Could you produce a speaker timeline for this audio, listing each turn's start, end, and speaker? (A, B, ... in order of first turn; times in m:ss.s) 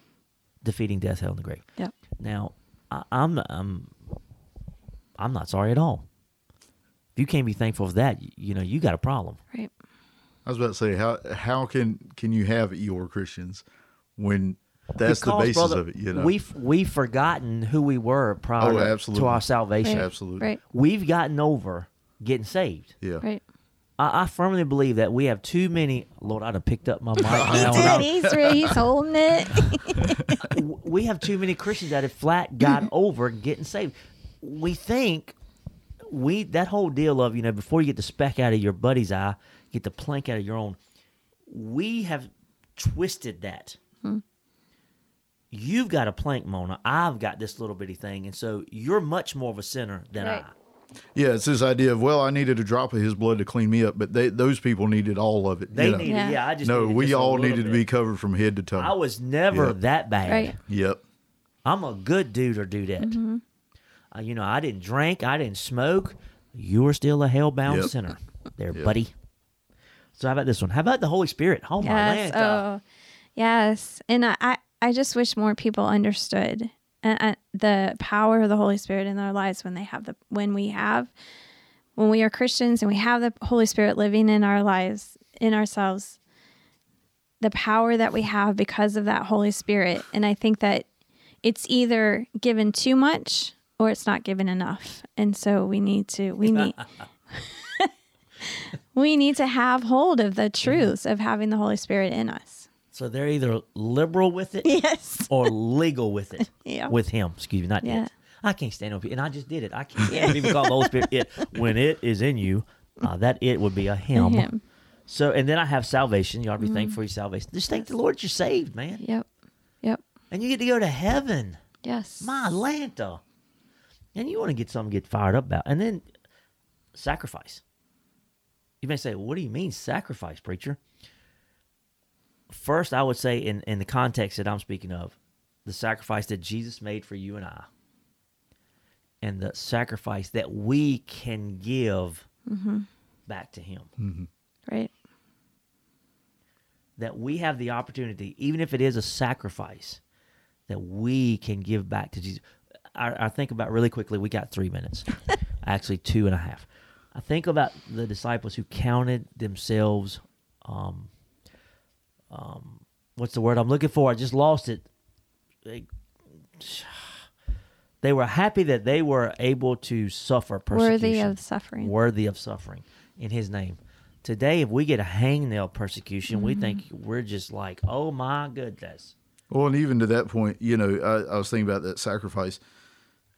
0:00.6-0:01.6 A
0:02.2-0:03.9 A
0:05.2-0:06.1 A
0:07.2-0:09.4 A
0:10.5-0:13.6 B
0:14.2-0:16.3 B
0:15.0-0:20.1 A
0:18.6-0:20.5 B
0:19.8-0:20.6 C
0:20.7-0:23.0 A
0:24.0-0:28.1 A
0:27.2-0:28.7 B
0:27.4-0:30.5 C
0:30.0-0:30.4 B
0:30.4-0:35.4 A
0:36.1-0:40.8 A
0:41.5-0:43.8 A
0:45.5-0:50.5 A
0:50.2-0:50.4 C
0:51.2-0:56.1 B
0:55.7-0:57.8 A
0:56.1-0:56.4 C
0:56.6-0:58.9 B
0:58.8-1:00.6 A
0:59.5-0:59.8 B
1:00.3-1:00.6 C
1:00.7-1:01.0 B
1:01.6-1:03.2 A
1:03.0-1:03.4 C
1:04.1-1:09.1 A
1:07.7-1:07.9 B
1:10.2-1:12.6 A
1:11.8-1:12.8 C
1:13.4-1:21.1 C
1:22.0-1:26.2 C
1:27.4-1:30.9 C
1:31.4-1:36.8 C
1:36.5-1:36.8 A
1:37.3-1:37.9 C
1:38.4-1:42.7 C
1:40.6-1:40.9 A
1:42.9-1:44.7 A
1:44.6-1:45.5 C
1:45.3-1:54.5 A
1:46.5-1:47.0 C
1:47.8-1:48.1 C
1:50.1-1:51.5 C
1:54.1-1:54.6 C
1:55.1-1:59.0 A
1:56.6-1:57.0 C
2:00.3-2:01.6 A
2:01.8-2:02.3 C
2:02.2-2:03.2 A
2:04.2-2:06.1 A
2:06.9-2:07.6 A
2:08.8-2:10.8 A
2:12.5-2:17.7 A
2:19.2-2:22.3 A
2:22.5-2:22.9 C
2:23.3-2:23.9 A
2:24.0-2:24.3 B
2:27.0-2:30.0 A
2:30.7-2:32.4 A
2:32.9-2:41.1 A
2:42.3-2:44.9 A
2:45.6-2:45.9 A
2:46.6-2:47.3 A
2:48.0-2:59.2 A
2:50.7-2:51.9 C
2:56.3-2:56.8 C
2:59.5-3:02.6 B